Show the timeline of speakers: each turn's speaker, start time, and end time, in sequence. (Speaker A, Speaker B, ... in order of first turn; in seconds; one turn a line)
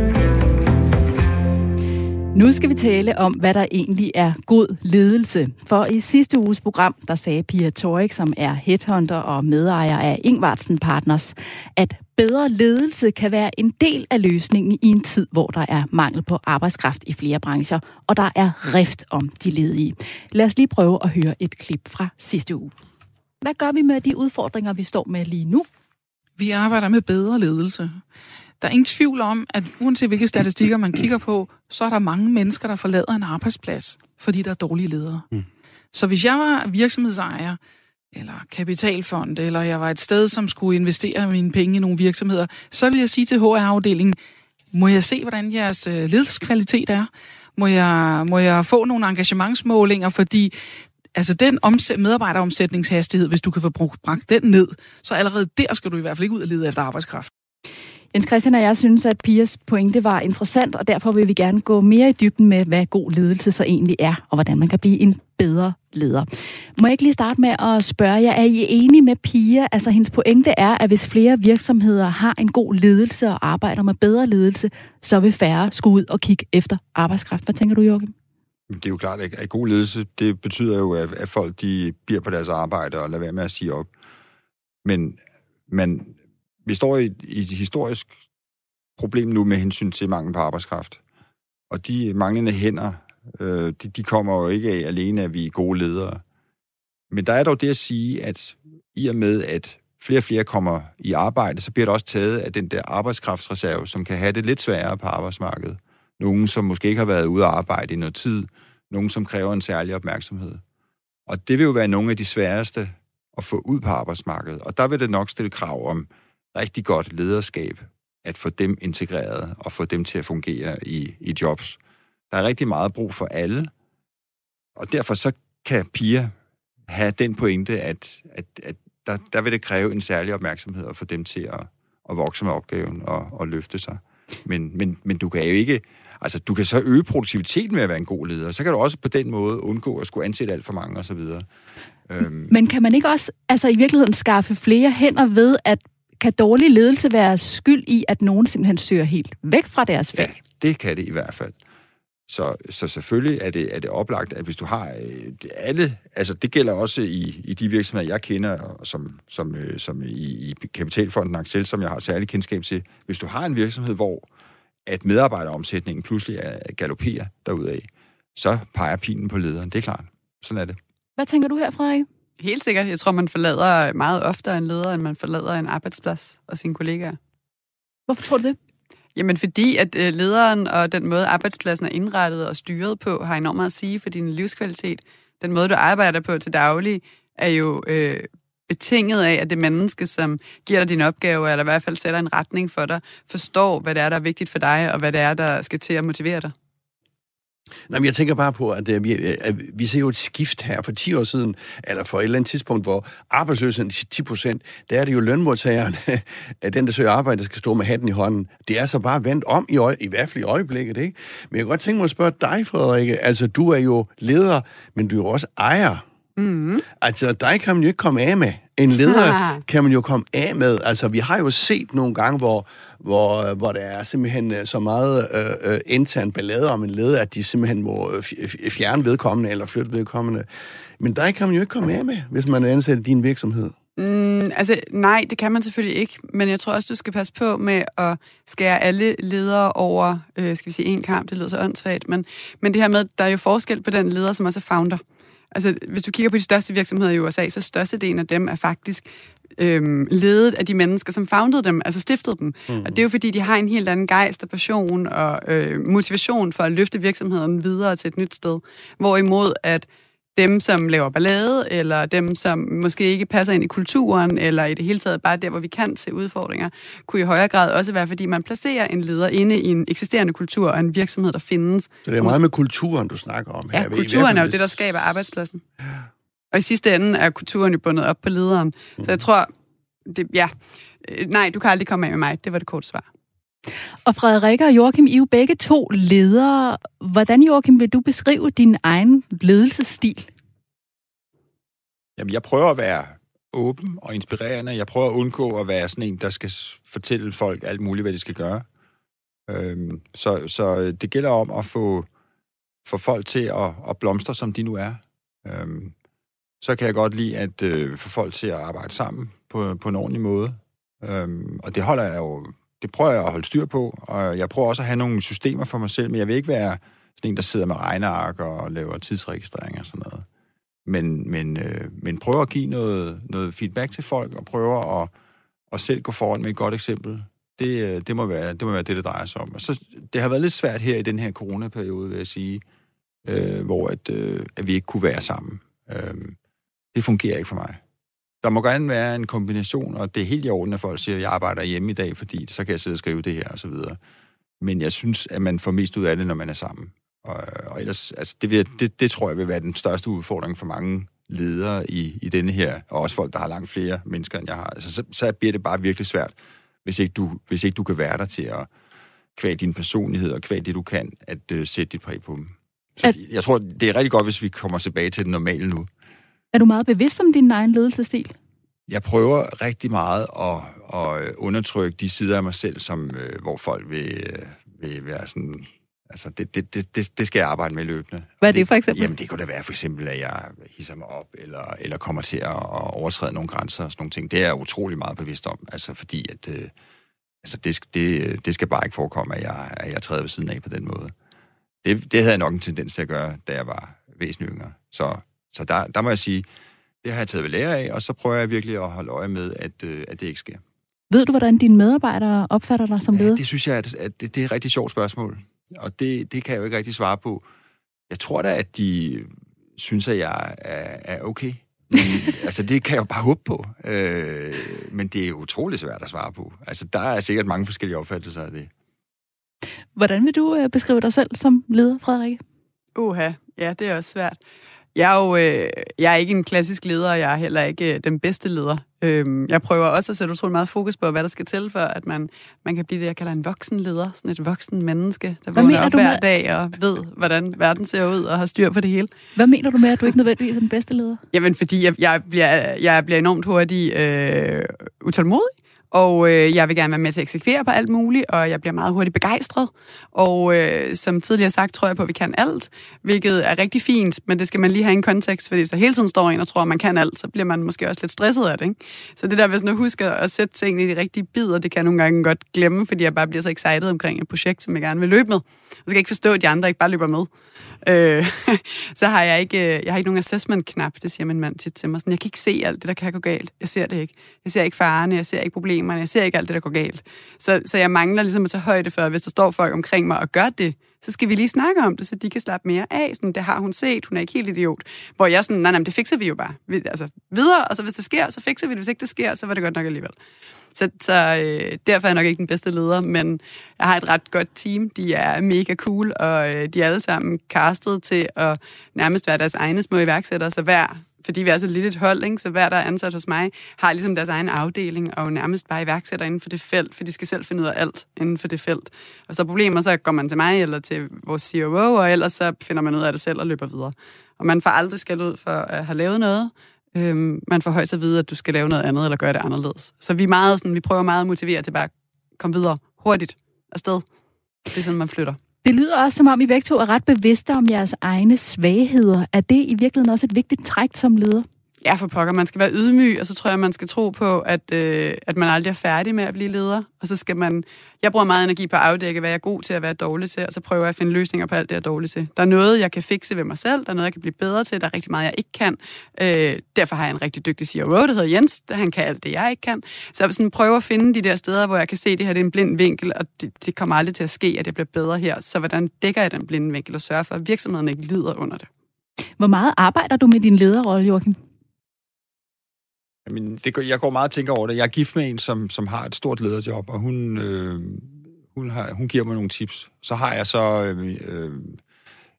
Speaker A: 2.3-22.7
Speaker A: 23.4-25.7
Speaker B: 26.4-28.0
Speaker B: 28.6-35.2
Speaker B: 35.9-37.6
Speaker B: 38.1-44.2
Speaker B: 44.7-50.5
Speaker B: 51.1-57.3
Speaker A: 58.1-78.1
Speaker C: 78.7-83.9
Speaker C: 84.8-88.1
Speaker C: 89.0-91.0
Speaker C: 91.7-96.2
Speaker C: 97.1-110.6
Speaker C: 111.3-121.8
Speaker C: 122.3-123.7
Speaker C: 124.8-126.3
Speaker C: 126.9-141.4
Speaker C: 142.1-142.6
Speaker A: 142.5-150.3
Speaker C: 150.1-151.6
Speaker C: 152.3-164.3
Speaker C: 164.8-170.8
Speaker A: 171.2-172.1
Speaker D: 172.4-177.2
Speaker A: 178.1-178.6
Speaker D: 179.2-196.5
Speaker E: 197.9-216.0
Speaker D: 216.4-216.8
Speaker E: 217.0-230.4
Speaker D: 219.1-219.6
Speaker E: 231.0-233.7
Speaker D: 234.0-245.0
Speaker D: 245.5-272.4
Speaker E: 252.7-253.0
Speaker E: 272.0-274.8
Speaker D: 273.7-275.6
Speaker D: 276.5-279.5
Speaker D: 280.1-283.0
Speaker A: 284.1-290.3
Speaker C: 292.2-298.6
Speaker C: 299.5-302.1
Speaker C: 302.8-305.9
Speaker C: 306.6-320.2
Speaker C: 320.8-325.1
Speaker C: 325.7-332.6
Speaker C: 333.2-336.4
Speaker C: 336.9-337.8
Speaker C: 338.4-344.0
Speaker C: 344.6-358.7
Speaker C: 359.4-365.9
Speaker A: 366.5-368.3
Speaker C: 368.9-386.7
Speaker A: 378.4-379.1
Speaker C: 387.4-391.1
Speaker C: 391.8-396.4
Speaker C: 397.0-400.6
Speaker A: 401.1-403.4
Speaker C: 403.1-407.4
Speaker C: 408.1-418.7
Speaker A: 419.9-422.4
Speaker D: 422.9-424.4
Speaker D: 424.9-439.1
Speaker A: 435.5-436.2
Speaker A: 439.4-441.2
Speaker D: 441.3-467.3
Speaker D: 467.8-490.1
Speaker D: 490.7-524.0
Speaker D: 524.7-525.4
Speaker A: 525.6-531.5
Speaker D: 531.8-558.7
Speaker A: 559.4-561.4
Speaker C: 563.2-571.8